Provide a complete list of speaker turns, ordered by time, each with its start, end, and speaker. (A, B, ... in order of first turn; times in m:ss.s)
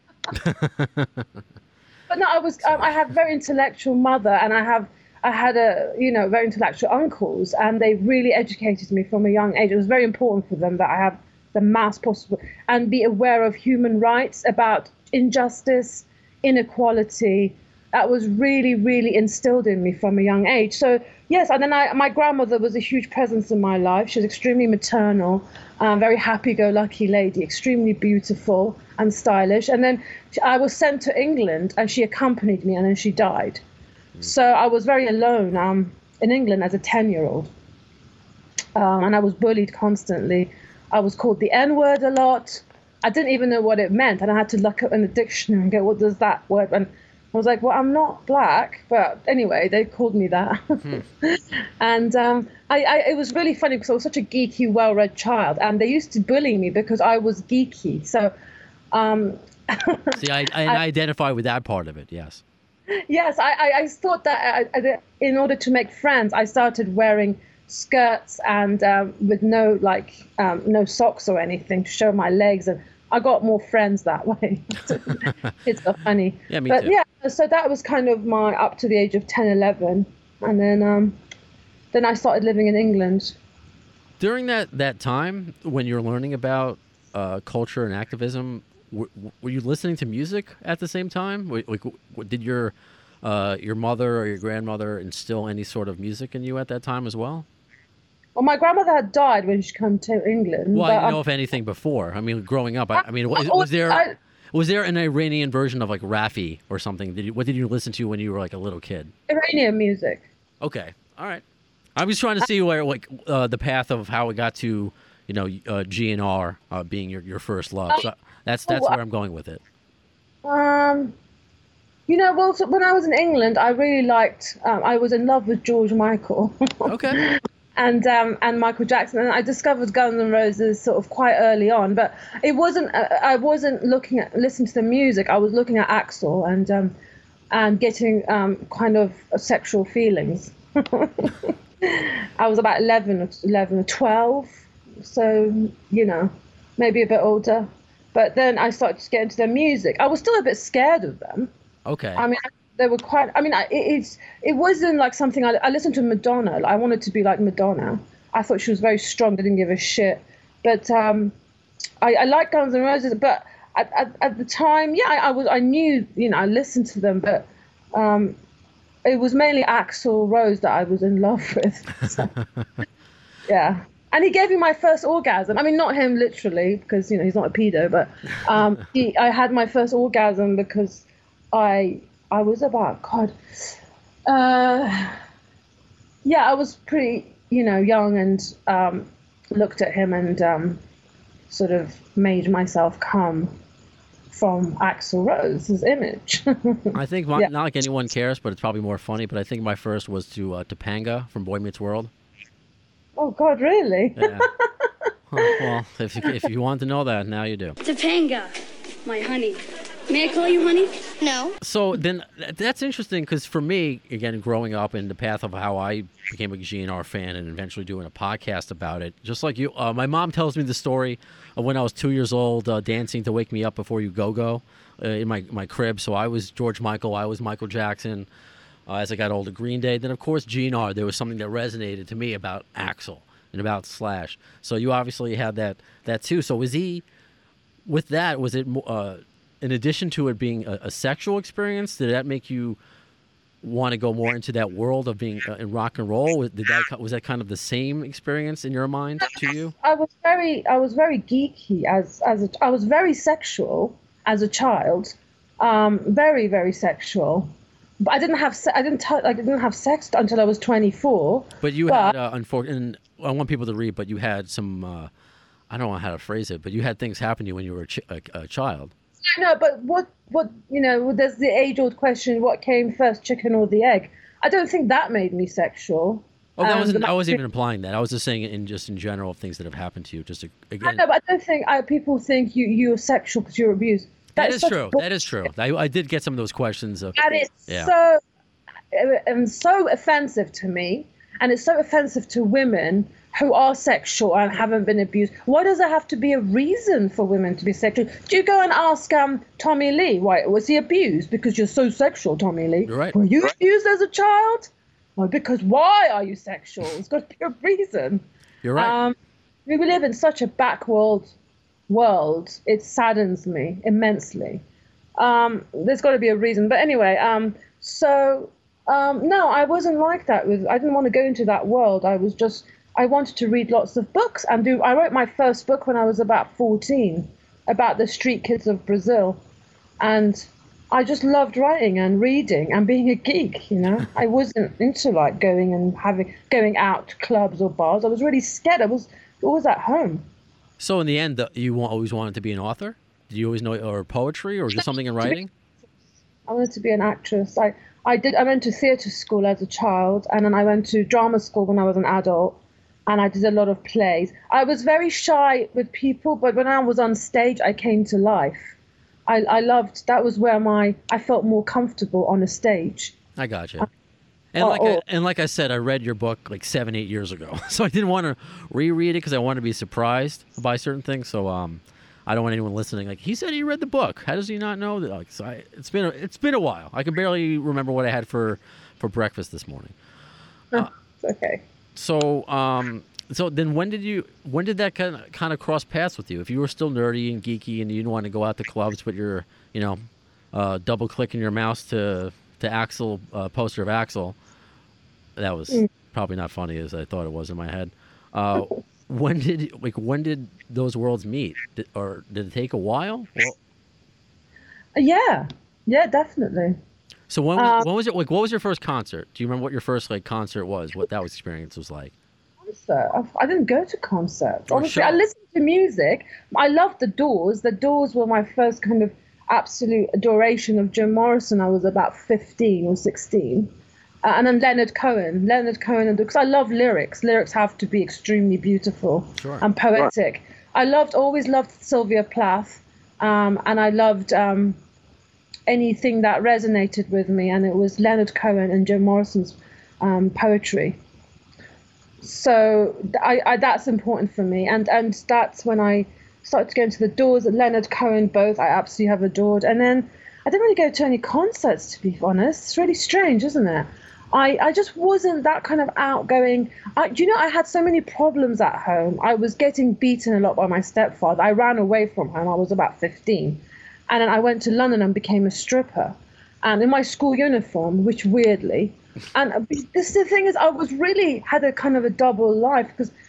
0:00.3-0:01.3 A
0:02.1-0:33.6 B
0:34.2-0:37.5 B
0:38.7-0:58.3 B
0:58.9-1:00.8 B
1:00.1-1:02.4 A
1:03.0-1:21.2 B
1:16.5-1:16.9 A
1:21.9-1:23.4 B
1:24.2-1:37.4 A
1:38.4-1:41.2 B
1:40.7-1:49.1 A
1:43.0-1:44.1 B
1:49.3-1:50.2 B
1:50.6-1:51.4 A
1:51.9-1:59.6 A
1:58.7-1:59.0 B
2:00.4-2:01.1 B
2:02.1-2:16.9 B
2:06.8-2:07.2 A
2:17.5-2:31.5 B
2:31.8-2:32.2 A
2:32.2-2:41.3 B
2:42.0-2:48.4 B
2:49.0-2:52.3 B
2:53.5-3:03.7 B
3:04.3-3:05.2 B
3:06.2-3:10.8 B
3:11.5-3:13.5 B
3:14.3-3:17.5 B
3:16.9-3:22.1 A
3:23.2-3:24.9 B
3:24.2-3:24.5 A
3:25.3-3:27.8 A
3:25.4-3:25.7 B
3:27.8-3:28.5 C
3:29.0-3:31.6 C
3:31.6-3:48.3 A
3:48.9-3:57.0 A
3:57.8-4:02.8 A
4:03.6-4:09.7 A
4:09.8-4:22.1 B
4:21.6-4:25.1 A
4:25.7-4:28.9 A
4:29.3-4:37.4 B
4:36.6-4:41.0 A
4:40.8-4:45.5 B
4:44.4-4:47.9 A
4:47.2-4:48.2 B
4:48.9-5:08.2 B
5:02.9-5:03.1 A
5:08.6-5:09.0 A
5:08.8-5:09.2 B
5:09.7-5:11.3 B
5:11.9-5:14.6 B
5:15.2-5:29.4 B
5:30.0-5:40.2 B
5:40.8-5:45.5 A
5:46.5-5:58.7 B
5:59.3-6:03.2 B
6:03.4-6:03.9 A
6:04.5-6:19.9 A
6:04.6-6:05.0 B
6:20.7-6:21.6 B
6:22.0-6:30.0 A
6:30.5-6:34.4 A
6:35.4-6:43.6 A
6:45.0-6:46.8 B
6:47.3-6:52.1 A
6:47.6-6:47.9 B
6:52.6-7:03.7 B
6:54.7-6:55.2 A
7:04.2-7:14.8 B
7:09.4-7:09.6 A
7:15.7-7:21.0 B
7:22.2-7:53.1 B